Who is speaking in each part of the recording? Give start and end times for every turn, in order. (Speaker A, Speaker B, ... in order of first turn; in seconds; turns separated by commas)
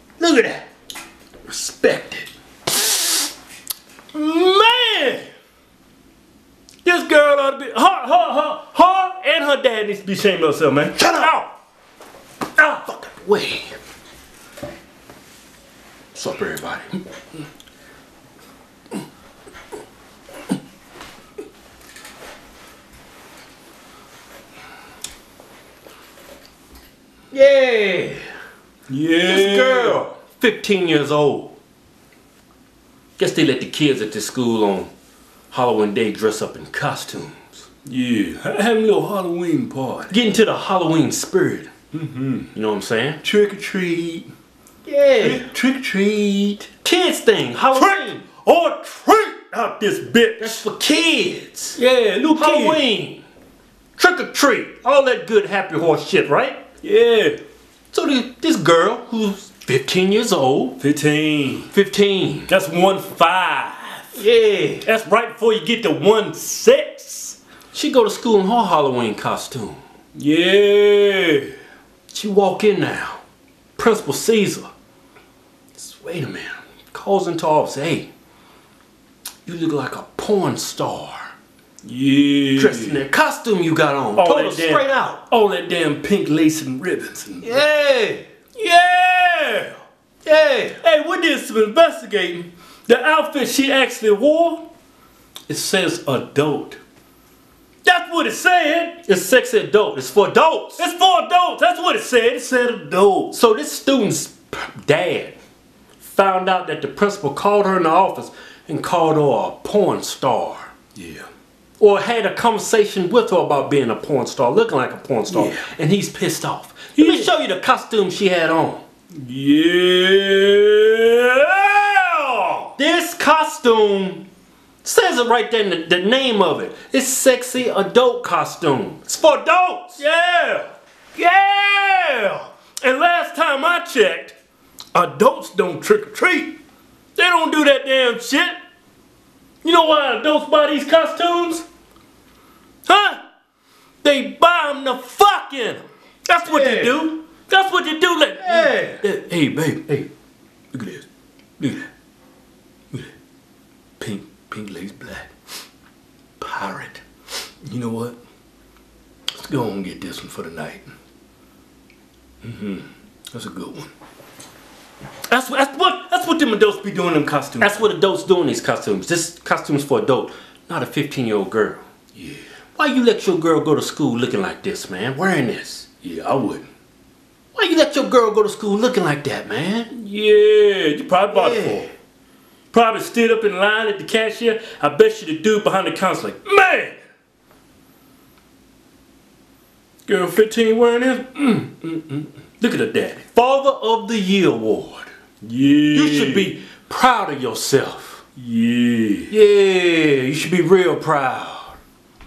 Speaker A: 0.2-0.6, Speaker B: 1.5-2.3, Speaker B: 4.1-5.2, Speaker B: 6.8-11.5, Speaker A: 11.0-11.3, Speaker A: 12.6-13.7, Speaker A: 16.1-17.0, Speaker A: 27.3-28.3, Speaker B: 28.9-30.0, Speaker A: 29.2-31.6, Speaker A: 33.2-34.9, Speaker A: 35.5-37.6, Speaker B: 37.9-40.1, Speaker A: 40.1-41.7, Speaker B: 41.9-42.5, Speaker A: 42.5-43.2, Speaker B: 43.2-44.3, Speaker A: 44.9-45.5, Speaker B: 45.2-46.7, Speaker A: 46.8-48.2, Speaker B: 47.7-50.6, Speaker A: 50.4-51.8, Speaker B: 51.8-52.8, Speaker A: 52.4-53.2, Speaker A: 54.0-56.6, Speaker B: 56.8-57.4, Speaker A: 57.9-60.8, Speaker B: 60.8-61.7, Speaker A: 61.7-62.5, Speaker B: 62.5-64.2, Speaker A: 64.2-64.8, Speaker B: 64.8-67.4, Speaker A: 67.7-69.8, Speaker B: 70.2-71.5, Speaker A: 72.1-73.2, Speaker A: 73.8-74.7, Speaker A: 75.8-78.1, Speaker A: 79.5-81.3, Speaker B: 81.8-83.0, Speaker A: 82.6-85.2, Speaker B: 84.2-87.7, Speaker A: 87.4-88.2, Speaker B: 88.6-89.8, Speaker A: 90.2-90.8, Speaker B: 90.8-94.7, Speaker B: 95.5-96.8, Speaker B: 97.8-99.0, Speaker A: 99.0-100.8, Speaker B: 100.8-103.3, Speaker A: 103.3-105.4, Speaker A: 106.0-110.7, Speaker B: 111.0-111.3, Speaker A: 111.8-118.8, Speaker B: 115.3-115.7, Speaker B: 117.0-117.3, Speaker B: 119.1-122.7, Speaker A: 122.8-124.2, Speaker A: 124.8-130.0, Speaker B: 130.0-134.4, Speaker B: 134.9-136.6, Speaker B: 137.2-138.6, Speaker B: 139.6-141.7, Speaker B: 142.9-143.2, Speaker B: 144.0-145.8, Speaker A: 146.3-147.2, Speaker B: 146.4-149.0, Speaker A: 148.4-150.1, Speaker B: 150.7-151.0, Speaker B: 151.6-151.8, Speaker B: 154.0-155.3, Speaker B: 156.4-157.0, Speaker B: 157.6-158.2, Speaker B: 159.3-160.9, Speaker B: 162.4-163.9, Speaker B: 165.3-167.8, Speaker A: 167.6-171.8, Speaker A: 172.8-175.9, Speaker B: 176.0-176.7, Speaker A: 177.6-179.9, Speaker B: 179.9-181.9, Speaker A: 181.3-181.9, Speaker B: 182.7-187.0, Speaker B: 190.1-193.2, Speaker A: 193.3-195.1, Speaker B: 195.4-196.5, Speaker A: 195.9-198.2, Speaker B: 198.4-199.3, Speaker A: 199.3-201.8